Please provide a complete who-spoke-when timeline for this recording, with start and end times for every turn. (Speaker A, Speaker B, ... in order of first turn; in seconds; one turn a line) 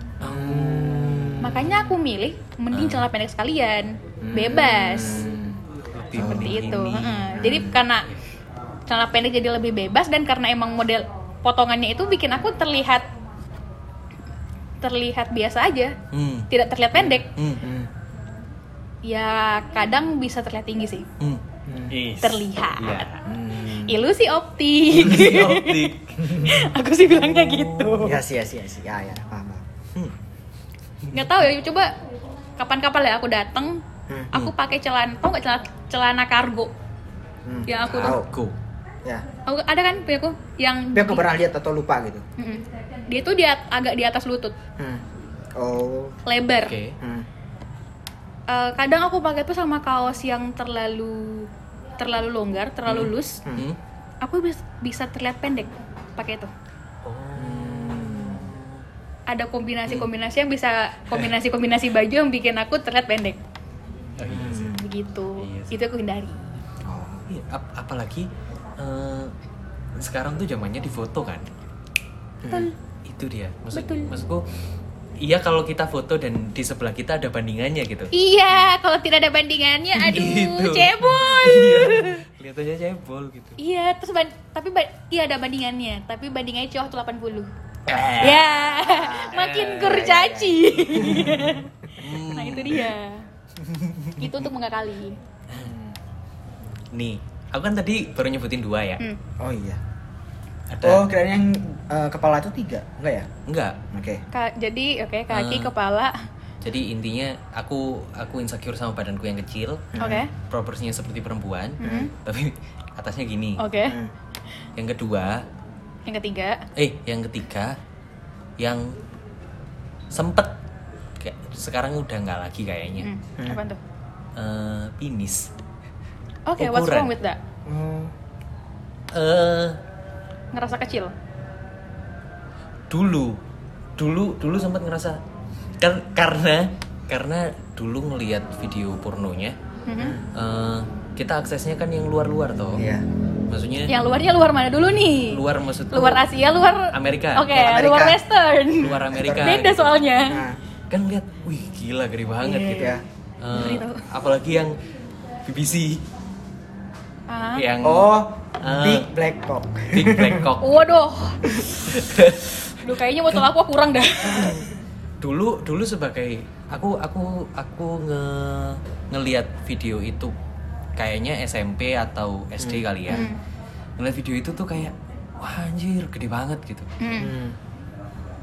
Speaker A: 0.2-1.4
Speaker B: 0.2-1.9
Speaker C: 1.4-5.3
Speaker A: 2.7-3.0
Speaker B: 4.2-5.6
Speaker A: 6.0-7.4
Speaker B: 6.2-6.5
Speaker C: 6.2-8.1
Speaker B: 7.3-7.7
Speaker C: 8.9-13.1
Speaker C: 14.8-15.9
Speaker A: 16.1-17.6
Speaker C: 16.5-17.3
Speaker B: 17.6-17.9
Speaker C: 19.0-21.1
Speaker A: 21.2-23.2
Speaker B: 21.7-21.9
Speaker C: 22.2-23.1
Speaker B: 23.2-24.0
Speaker C: 23.8-28.2
Speaker A: 24.9-26.3
Speaker B: 26.2-26.5
Speaker A: 27.1-28.2
Speaker B: 28.0-29.6
Speaker A: 31.0-31.3
Speaker C: 31.1-31.9
Speaker C: 32.6-36.7
Speaker B: 37.5-38.3
Speaker C: 37.7-38.2
Speaker A: 37.8-38.5
Speaker C: 39.5-41.2
Speaker B: 40.9-42.2
Speaker C: 42.4-44.5
Speaker B: 45.6-46.2
Speaker C: 46.2-46.8
Speaker A: 46.6-46.9
Speaker B: 47.0-47.3
Speaker C: 48.5-53.4
Speaker A: 53.5-53.8
Speaker C: 54.2-56.5
Speaker A: 57.0-58.8
Speaker B: 57.4-58.5
Speaker C: 59.3-63.4
Speaker A: 64.2-64.7
Speaker B: 64.2-64.8
Speaker C: 64.7-66.4
Speaker A: 65.4-65.7
Speaker B: 66.8-67.2
Speaker A: 67.3-69.3
Speaker A: 70.0-71.5
Speaker B: 72.4-72.7
Speaker C: 72.5-72.7
Speaker A: 73.0-74.5
Speaker C: 73.7-74.1
Speaker A: 75.2-78.1
Speaker C: 78.1-82.2
Speaker A: 79.9-83.6
Speaker C: 83.6-87.5
Speaker B: 87.9-88.2
Speaker A: 87.9-88.4
Speaker C: 88.2-93.2
Speaker B: 88.8-91.3
Speaker A: 89.3-90.0
Speaker A: 90.9-91.5
Speaker A: 92.0-92.9
Speaker A: 93.6-94.5
Speaker C: 94.2-95.2
Speaker B: 95.5-96.0
Speaker A: 96.9-99.0
Speaker B: 99.4-99.8
Speaker A: 100.7-101.1
Speaker B: 100.8-103.3
Speaker A: 103.5-103.8
Speaker B: 103.9-104.2
Speaker C: 104.3-106.2
Speaker A: 105.3-105.7
Speaker A: 106.6-113.6
Speaker B: 109.9-110.2
Speaker C: 110.0-110.3
Speaker C: 111.8-112.1
Speaker B: 111.8-112.1
Speaker C: 113.6-114.0
Speaker B: 113.8-114.1
Speaker A: 114.8-115.4
Speaker C: 116.0-116.6
Speaker A: 116.8-117.8
Speaker A: 118.6-119.0
Speaker A: 120.1-120.6
Speaker A: 121.2-123.1
Speaker C: 123.0-123.8
Speaker A: 124.3-125.5
Speaker C: 126.5-127.4
Speaker A: 126.6-127.1
Speaker B: 127.7-128.1
Speaker A: 129.1-129.8
Speaker C: 130.5-131.1
Speaker A: 132.9-133.4
Speaker A: 134.0-135.2
Speaker A: 135.8-139.6
Speaker C: 139.9-140.2
Speaker B: 140.0-140.2
Speaker A: 140.3-142.8
Speaker B: 142.7-143.0
Speaker A: 143.5-143.9
Speaker C: 143.9-145.4
Speaker A: 145.3-146.2
Speaker C: 145.9-150.4
Speaker A: 146.9-147.6
Speaker B: 147.5-148.2
Speaker A: 148.8-149.9
Speaker B: 148.8-149.6
Speaker B: 150.3-150.6
Speaker A: 150.9-154.7
Speaker C: 152.4-152.9
Speaker B: 152.7-153.0
Speaker C: 153.5-154.0
Speaker A: 155.4-156.0
Speaker C: 157.3-157.6
Speaker A: 157.6-159.1
Speaker B: 157.8-160.5
Speaker A: 159.9-160.8
Speaker C: 160.6-161.4
Speaker A: 161.8-162.8
Speaker C: 162.8-164.5
Speaker A: 164.3-164.7
Speaker A: 165.2-170.3
Speaker A: 171.0-173.3
Speaker B: 172.6-173.3
Speaker C: 173.1-173.4
Speaker A: 174.0-176.9
Speaker C: 177.0-177.3
Speaker B: 177.2-177.6